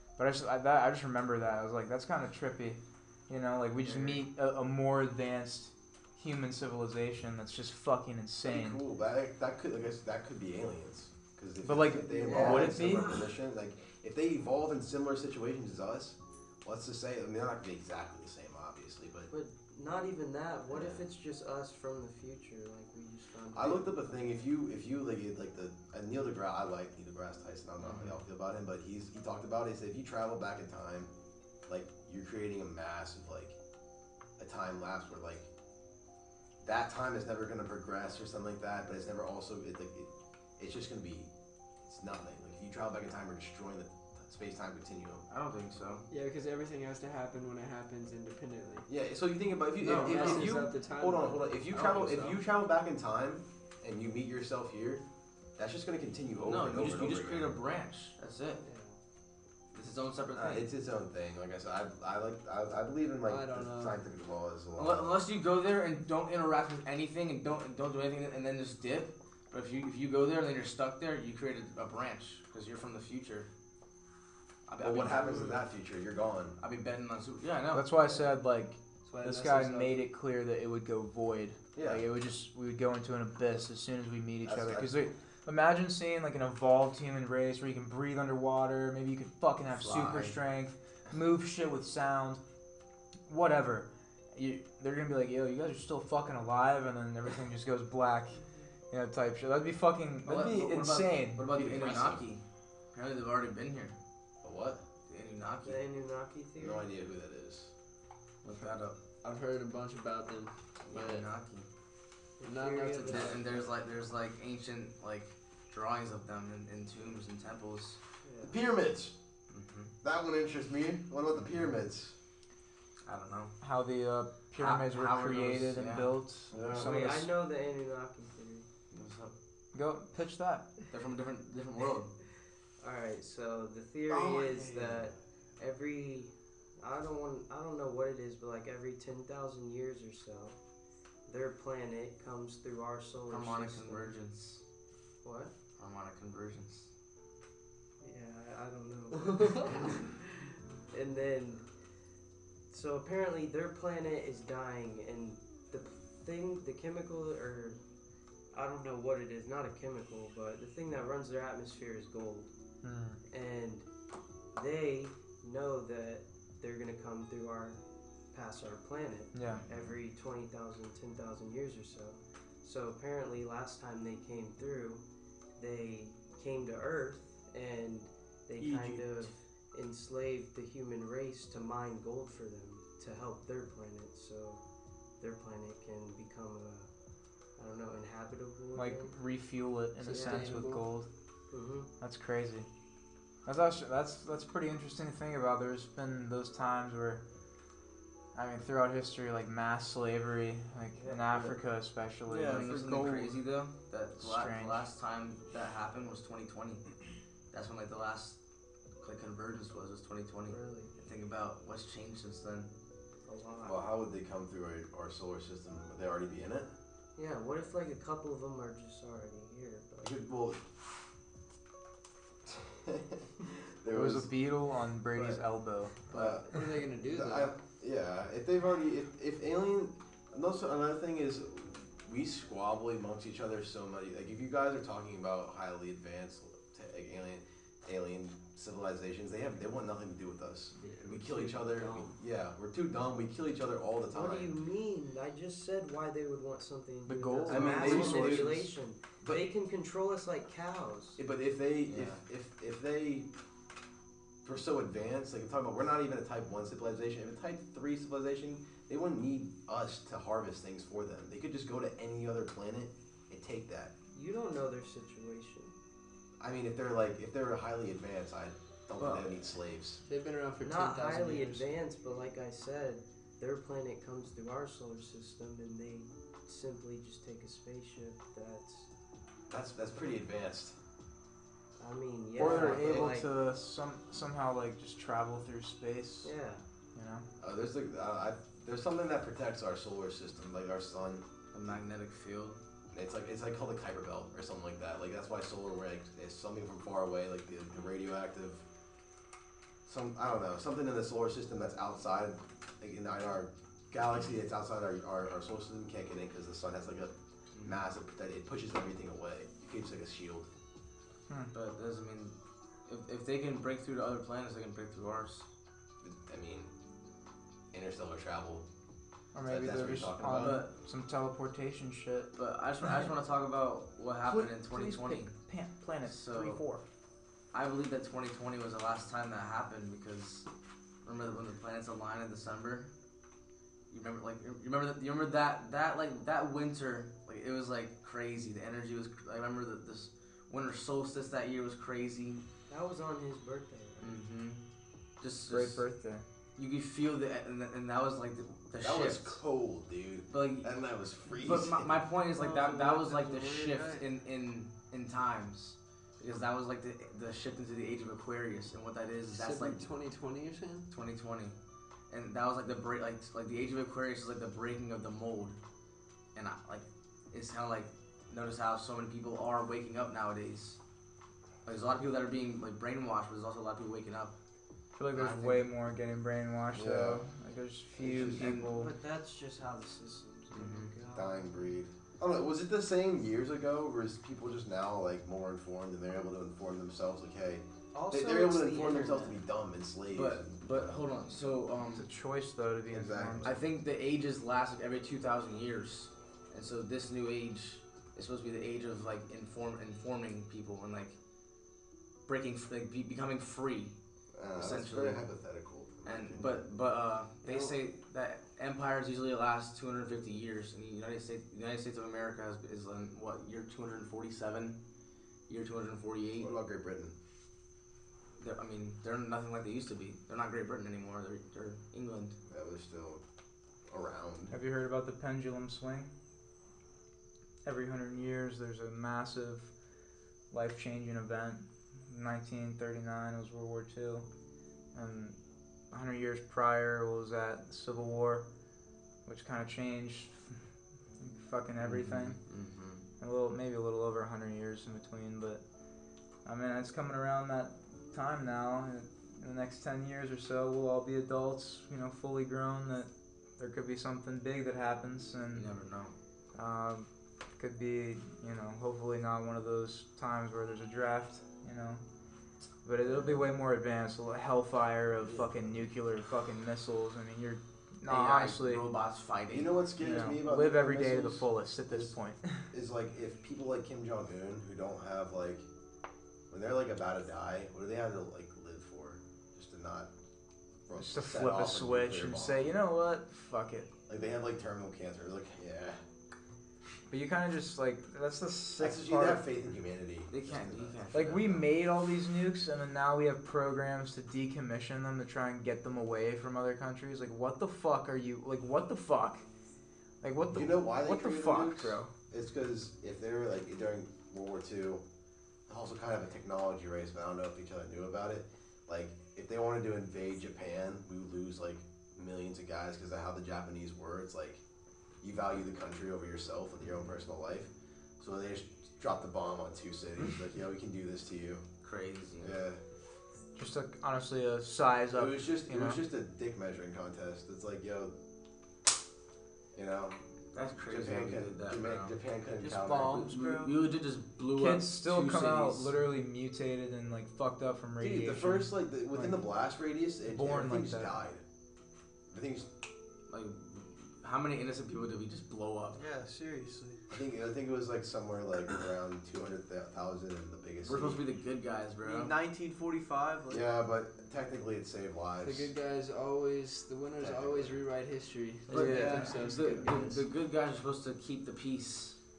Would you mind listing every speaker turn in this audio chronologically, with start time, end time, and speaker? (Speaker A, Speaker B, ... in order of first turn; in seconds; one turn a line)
Speaker A: 0.2-8.8
Speaker B: 8.4-19.3
Speaker A: 11.6-13.2
Speaker C: 12.2-13.2
Speaker C: 19.3-24.2
Speaker B: 20.7-21.0
Speaker B: 23.5-31.1
Speaker D: 27.8-28.2
Speaker B: 31.6-33.6
Speaker B: 34.4-35.5
Speaker B: 36.6-41.3
Speaker B: 41.9-45.2
Speaker D: 45.3-46.0
Speaker E: 46.1-48.9
Speaker B: 48.9-55.0
Speaker D: 49.8-50.5
Speaker E: 49.8-51.4
Speaker D: 51.7-52.4
Speaker B: 55.6-57.6
Speaker D: 56.4-58.6
Speaker C: 58.6-59.0
Speaker D: 59.7-60.7
Speaker B: 60.4-65.2
Speaker E: 63.2-64.0
Speaker D: 64.8-73.5
Speaker D: 74.7-75.5
Speaker B: 74.8-76.6
Speaker C: 75.2-75.6
Speaker D: 76.6-77.8
Speaker A: 77.7-92.4
Speaker E: 79.0-80.0
Speaker B: 81.8-82.0
Speaker B: 84.4-84.9
Speaker D: 89.7-90.3
Speaker A: 93.3-102.0
Speaker D: 100.2-102.4
Speaker B: 101.5-102.2
Speaker D: 102.9-104.0
Speaker B: 104.4-104.8
Speaker D: 105.1-105.8
Speaker C: 105.6-106.9
Speaker B: 106.6-107.7
Speaker D: 108.4-109.0
Speaker E: 109.2-111.2
Speaker D: 110.9-111.7
Speaker C: 112.4-113.6
Speaker E: 112.4-113.5
Speaker D: 113.0-118.0
Speaker C: 118.2-118.6
Speaker B: 118.4-119.1
Speaker D: 119.5-119.9
Speaker B: 120.0-122.1
Speaker D: 123.0-123.6
Speaker A: 123.6-127.3
Speaker D: 124.5-126.1
Speaker B: 126.5-127.1
Speaker C: 126.6-128.7
Speaker D: 128.9-129.3
Speaker A: 129.7-130.7
Speaker D: 130.9-132.1
Speaker C: 132.8-140.6
Speaker F: 134.2-134.9
Speaker C: 141.2-144.1
Speaker D: 143.3-144.6
Speaker C: 145.2-145.5
Speaker D: 145.8-146.9
Speaker C: 148.0-151.7
Speaker C: 152.7-157.8
Speaker C: 158.5-162.5
Speaker A: 162.8-163.2
Speaker C: 163.3-163.8
Speaker C: 164.5-175.0
Speaker A: 169.3-169.6
Speaker D: 169.5-169.9
Speaker C: 175.6-184.6
Speaker A: 178.6-179.0
Speaker F: 178.6-179.0
Speaker C: 185.2-186.9
Speaker C: 187.6-189.2
Speaker A: 188.7-191.1
Speaker E: 190.0-190.8
Speaker C: 190.1-190.5
Speaker C: 191.5-191.9
Speaker A: 192.0-192.7
Speaker A: 193.4-197.2
Speaker A: 198.3-202.8
Speaker C: 200.9-201.5
Speaker F: 202.3-203.4
Speaker D: 202.4-206.9
Speaker A: 204.2-204.9
Speaker D: 207.5-208.4
Speaker D: 209.0-212.7
Speaker C: 210.5-210.9
Speaker C: 213.2-213.8
Speaker B: 213.6-216.7
Speaker C: 217.2-220.1
Speaker B: 220.0-220.6
Speaker B: 222.5-224.3
Speaker A: 223.9-226.0
Speaker B: 226.1-244.6
Speaker E: 226.2-227.5
Speaker E: 240.8-242.2
Speaker C: 244.1-251.2
Speaker A: 247.1-248.7
Speaker B: 247.5-248.7
Speaker B: 249.2-249.5
Speaker B: 251.2-253.3
Speaker D: 251.8-252.2
Speaker B: 254.4-263.9
Speaker C: 264.1-265.7
Speaker B: 266.4-270.0
Speaker D: 269.0-269.6
Speaker E: 270.1-271.8
Speaker C: 270.6-278.9
Speaker B: 279.5-280.8
Speaker C: 281.8-283.3
Speaker A: 282.4-286.3
Speaker B: 282.4-283.1
Speaker C: 286.2-286.6
Speaker A: 286.9-287.2
Speaker B: 287.4-291.8
Speaker D: 291.5-292.6
Speaker B: 292.9-298.6
Speaker B: 299.9-310.5
Speaker D: 307.5-307.8
Speaker A: 311.3-311.5
Speaker D: 311.5-312.3
Speaker D: 312.9-315.4
Speaker B: 316.0-316.7
Speaker B: 317.7-318.6
Speaker A: 319.3-322.3
Speaker B: 319.4-320.6
Speaker D: 320.4-320.7
Speaker D: 322.3-325.3
Speaker A: 324.2-326.8
Speaker D: 326.0-326.6
Speaker D: 327.5-330.5
Speaker D: 331.0-332.9
Speaker D: 333.9-342.4
Speaker C: 342.7-344.2
Speaker D: 344.0-344.6
Speaker D: 345.2-345.8
Speaker A: 345.5-346.2
Speaker D: 346.6-349.4
Speaker B: 348.8-352.0
Speaker D: 350.3-350.7
Speaker D: 351.3-359.9
Speaker F: 352.3-354.1
Speaker E: 359.3-360.9
Speaker D: 360.9-361.5
Speaker D: 362.1-365.6
Speaker D: 366.3-370.8
Speaker D: 371.6-374.3
Speaker A: 375.0-378.9
Speaker D: 375.1-375.7
Speaker B: 376.7-377.2
Speaker B: 378.0-378.6
Speaker D: 378.0-378.7
Speaker C: 378.4-381.8
Speaker D: 380.5-380.9
Speaker B: 381.1-391.0
Speaker C: 387.9-389.4
Speaker D: 390.1-392.1
Speaker A: 391.9-393.6
Speaker B: 392.9-393.5
Speaker D: 393.4-401.1
Speaker D: 402.3-403.9
Speaker B: 404.3-406.6
Speaker D: 404.5-405.2
Speaker D: 406.0-414.8
Speaker E: 407.5-407.7
Speaker D: 415.5-416.5
Speaker B: 416.4-417.1
Speaker D: 418.4-422.4
Speaker B: 422.5-423.2
Speaker B: 423.9-424.5
Speaker A: 424.5-426.1
Speaker A: 427.6-429.7
Speaker A: 430.5-434.3
Speaker A: 434.9-435.4
Speaker A: 435.9-438.4
Speaker A: 439.2-440.6
Speaker A: 441.2-442.4
Speaker D: 441.8-443.0
Speaker A: 443.2-445.6
Speaker A: 446.4-455.7
Speaker D: 455.5-456.1
Speaker A: 456.5-462.0
Speaker A: 462.8-468.8
Speaker B: 465.2-465.9
Speaker D: 468.1-469.9
Speaker B: 469.5-472.1
Speaker A: 470.0-472.7
Speaker B: 472.7-475.6
Speaker B: 476.5-480.1
Speaker B: 480.9-482.7
Speaker A: 481.0-483.9
Speaker B: 484.1-486.0
Speaker A: 487.1-489.4
Speaker B: 488.8-491.6
Speaker D: 490.3-491.6
Speaker A: 491.1-499.4
Speaker A: 500.2-502.1
Speaker B: 500.5-505.0
Speaker B: 505.7-514.6
Speaker B: 515.2-521.6
Speaker D: 521.8-522.5
Speaker B: 522.4-522.8
Speaker A: 523.5-526.0
Speaker B: 525.1-528.1
Speaker B: 529.7-530.2
Speaker D: 530.5-532.1
Speaker B: 530.9-533.2
Speaker F: 532.6-533.7
Speaker D: 533.0-535.9
Speaker A: 534.5-539.4
Speaker B: 538.0-541.4
Speaker A: 540.3-541.2
Speaker B: 542.3-542.7
Speaker D: 543.3-546.0
Speaker F: 545.9-547.0
Speaker B: 547.1-551.2
Speaker D: 550.8-552.3
Speaker F: 552.0-553.7
Speaker B: 553.5-555.7
Speaker E: 555.4-560.2
Speaker B: 557.2-557.8
Speaker A: 558.7-559.4
Speaker D: 558.7-562.2
Speaker F: 559.0-559.3